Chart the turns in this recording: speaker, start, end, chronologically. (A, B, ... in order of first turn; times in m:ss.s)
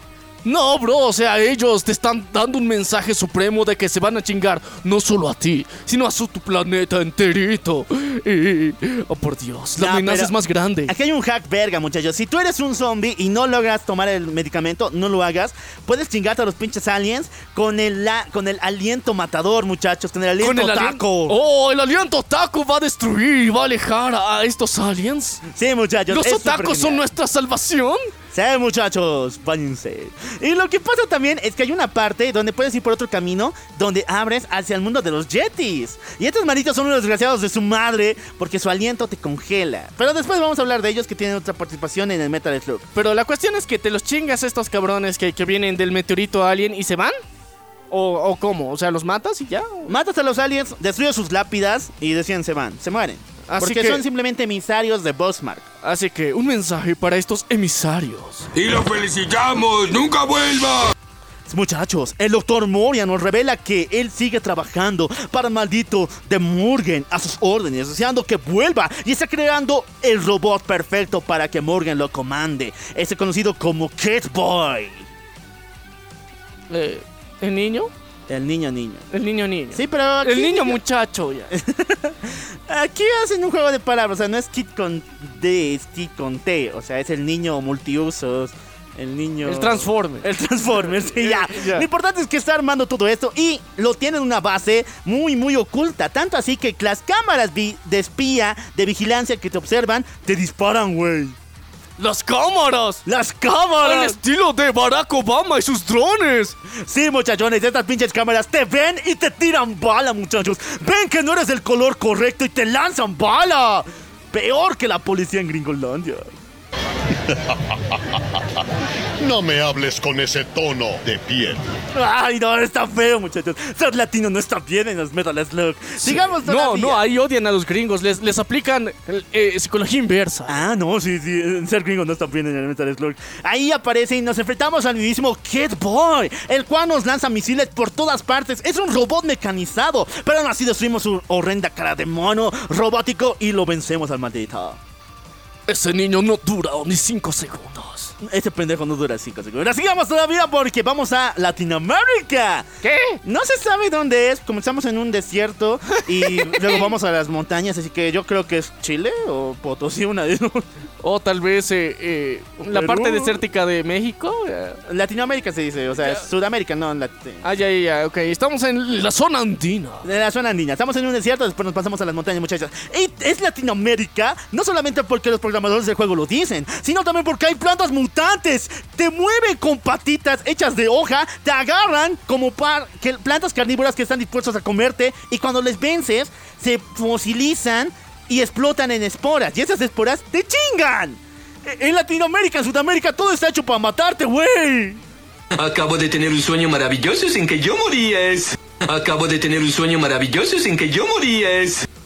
0:00.4-0:10.9 A
0:09.8-0:10.4 B
0:10.9-0:21.4 B
0:20.4-0:25.4 A
0:25.5-0:27.0 B
0:26.1-0:28.1 A
0:28.3-0:42.9 B
0:43.0-0:47.2 A
0:47.9-0:49.9 A
0:49.9-0:55.7 B
0:53.5-0:54.0 A
0:55.8-0:58.5 A
0:58.5-1:00.9 C
1:01.5-1:15.0 B
1:16.7-1:17.9 A
1:18.3-1:19.1 B
1:19.1-1:21.5 A
1:19.7-1:20.8 B
1:21.5-1:41.4 B
1:29.4-1:30.2 A
1:31.0-1:31.9 A
1:42.0-1:43.0 A
1:43.1-1:44.2 B
1:43.8-1:46.6 A
1:46.7-1:56.3 B
1:57.3-1:58.2 D
1:59.2-2:01.6 D
2:01.9-2:07.0 B
2:06.0-2:10.6 A
2:10.5-2:24.8 B
2:25.7-2:28.1 A
2:28.2-2:32.7 B
2:32.8-2:33.2 A
2:33.2-2:40.7 B
2:36.2-2:36.8 A
2:41.0-2:44.8 A
2:42.7-2:43.4 B
2:44.9-2:47.4 B
2:47.4-2:50.0 A
2:50.0-3:15.0 B
3:15.6-3:21.9 E